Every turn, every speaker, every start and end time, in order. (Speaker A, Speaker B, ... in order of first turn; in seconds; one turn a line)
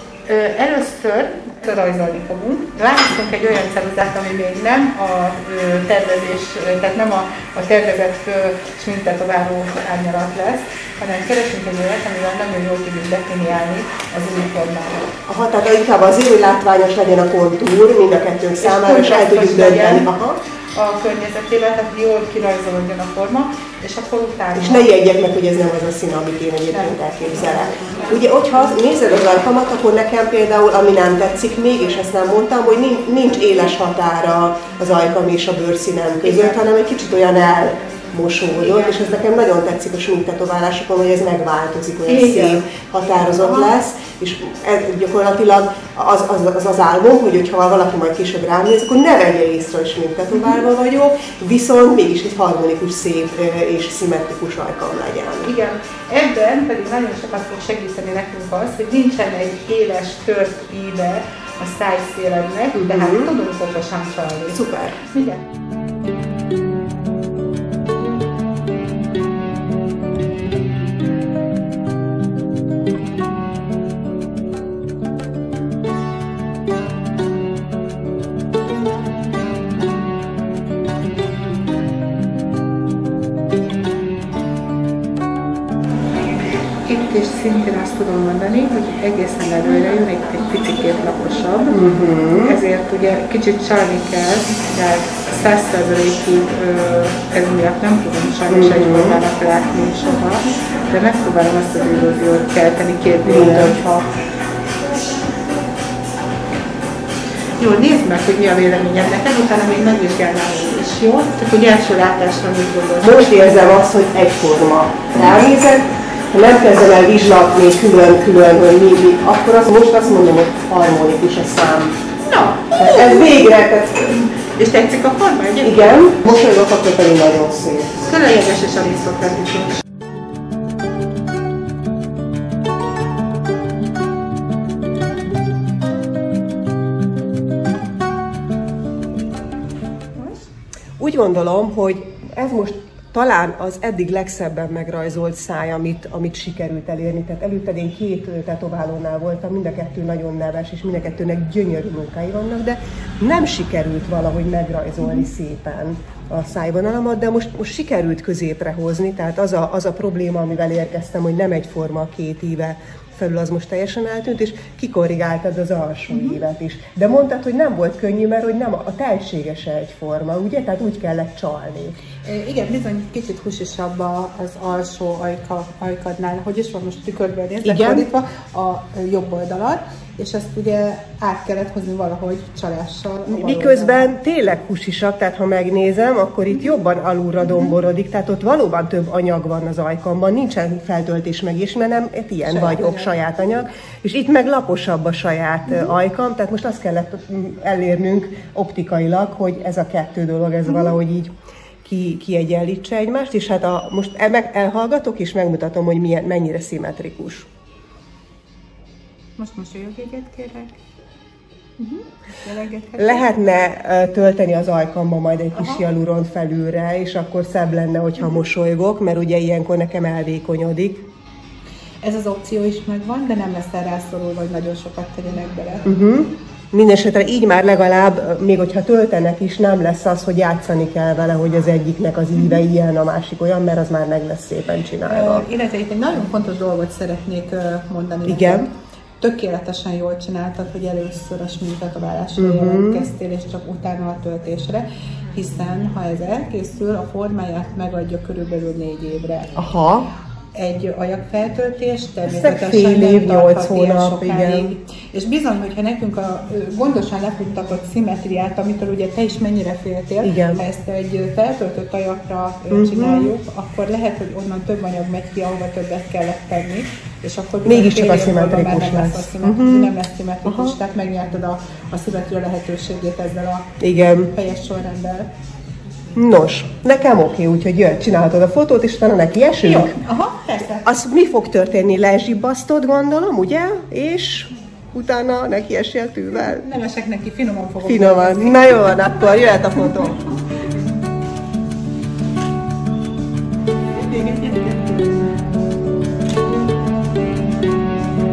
Speaker A: 0.3-15.2
Speaker B: 15.2-20.4
Speaker A: 18.6-20.1
Speaker A: 20.8-24.9
Speaker B: 24.5-55.5
Speaker A: 26.7-28.2
Speaker A: 36.2-36.5
Speaker A: 42.1-42.6
Speaker A: 43.3-43.7
Speaker A: 55.4-65.4
Speaker B: 62.7-63.3
Speaker B: 64.5-65.0
Speaker A: 86.8-104.1
Speaker B: 91.7-92.5
Speaker B: 98.5-99.2
Speaker B: 103.2-103.8
Speaker A: 107.6-113.8
Speaker B: 113.0-122.0
Speaker A: 122.2-123.5
Speaker B: 122.7-124.1
Speaker A: 124.0-126.3
Speaker B: 125.6-128.0
Speaker A: 128.0-129.8
Speaker B: 141.0-172.0
Speaker A: 166.1-166.4
Speaker A: 172.2-184.1
Speaker B: 177.6-178.1
Speaker B: 183.2-201.3
Speaker A: 192.4-193.1
Speaker B: 201.8-207.5
Speaker A: 209.4-210.8
Speaker A: 211.8-213.2
Speaker B: 213.0-221.1
Speaker A: 215.6-215.8
Speaker A: 222.0-225.9
Speaker B: 225.8-235.4
Speaker A: 235.0-238.7
Speaker B: 238.3-238.6
Speaker A: 239.2-249.5
Speaker B: 242.4-243.1
Speaker B: 249.6-250.1
Speaker A: 250.5-275.3
Speaker B: 252.3-254.7
Speaker B: 260.2-260.6
Speaker B: 262.7-263.3
Speaker B: 267.6-269.9
Speaker B: 270.4-270.7
Speaker B: 273.8-274.3
Speaker B: 276.1-280.0
Speaker A: 279.6-280.9
Speaker B: 280.8-286.6
Speaker A: 286.3-290.1
Speaker B: 287.8-290.2
Speaker A: 293.9-295.2